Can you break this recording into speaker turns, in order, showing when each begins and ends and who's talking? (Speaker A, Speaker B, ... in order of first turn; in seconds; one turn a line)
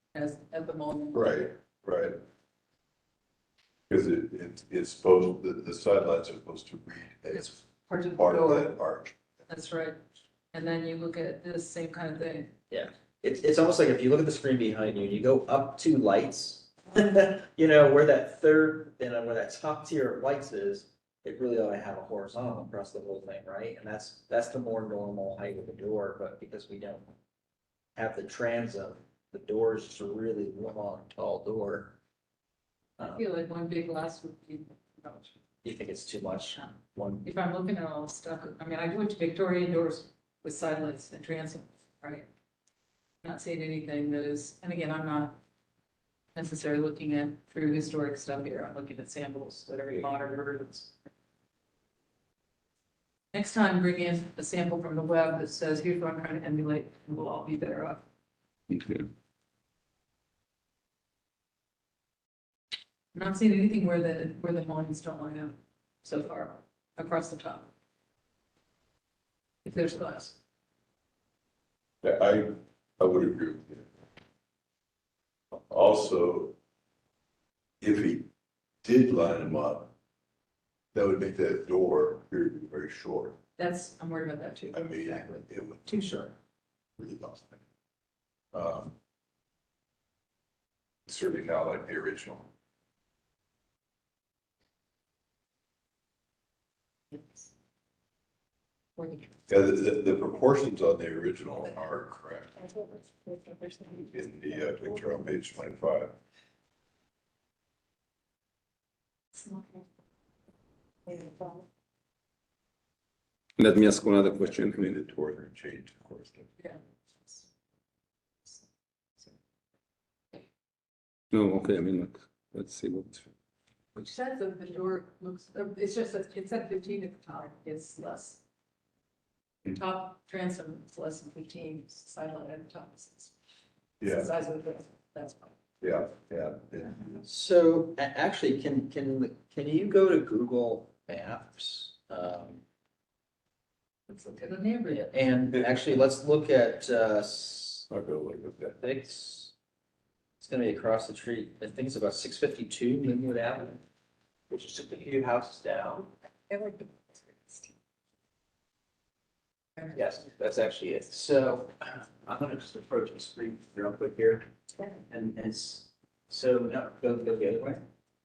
Speaker A: 0.1-1.2
Speaker B: 1.1-2.2
Speaker B: 3.9-9.2
Speaker A: 7.3-8.7
Speaker A: 9.5-10.0
Speaker A: 10.5-12.5
Speaker C: 12.7-27.1
Speaker C: 27.9-31.9
Speaker A: 33.1-35.3
Speaker C: 35.6-37.3
Speaker A: 37.2-42.3
Speaker A: 43.2-45.4
Speaker A: 46.3-50.9
Speaker A: 53.3-58.0
Speaker D: 58.7-59.1
Speaker A: 63.1-67.7
Speaker A: 69.6-70.3
Speaker B: 72.0-73.8
Speaker B: 75.7-76.5
Speaker B: 77.8-78.3
Speaker B: 78.8-79.9
Speaker B: 80.9-83.4
Speaker A: 83.6-85.4
Speaker B: 84.7-86.0
Speaker B: 87.0-87.6
Speaker B: 88.5-88.9
Speaker B: 91.1-92.5
Speaker A: 97.1-97.5
Speaker A: 99.0-99.3
Speaker B: 99.5-102.5
Speaker A: 102.6-104.1
Speaker B: 104.1-106.1
Speaker A: 109.4-109.6
Speaker A: 111.1-111.6
Speaker D: 113.6-114.9
Speaker B: 114.3-116.5
Speaker A: 116.6-117.4
Speaker D: 121.3-123.3
Speaker A: 123.9-128.4
Speaker A: 129.7-133.3
Speaker B: 134.0-134.3
Speaker A: 134.0-135.5
Speaker B: 135.8-137.2
Speaker C: 137.2-142.6
Speaker A: 144.1-145.2
Speaker C: 145.1-147.9
Speaker B: 147.9-148.8
Speaker C: 148.8-149.5
Speaker C: 150.4-153.8
Speaker C: 154.5-156.1
Speaker A: 156.5-156.9
Speaker C: 159.9-164.5
Speaker C: 165.0-167.8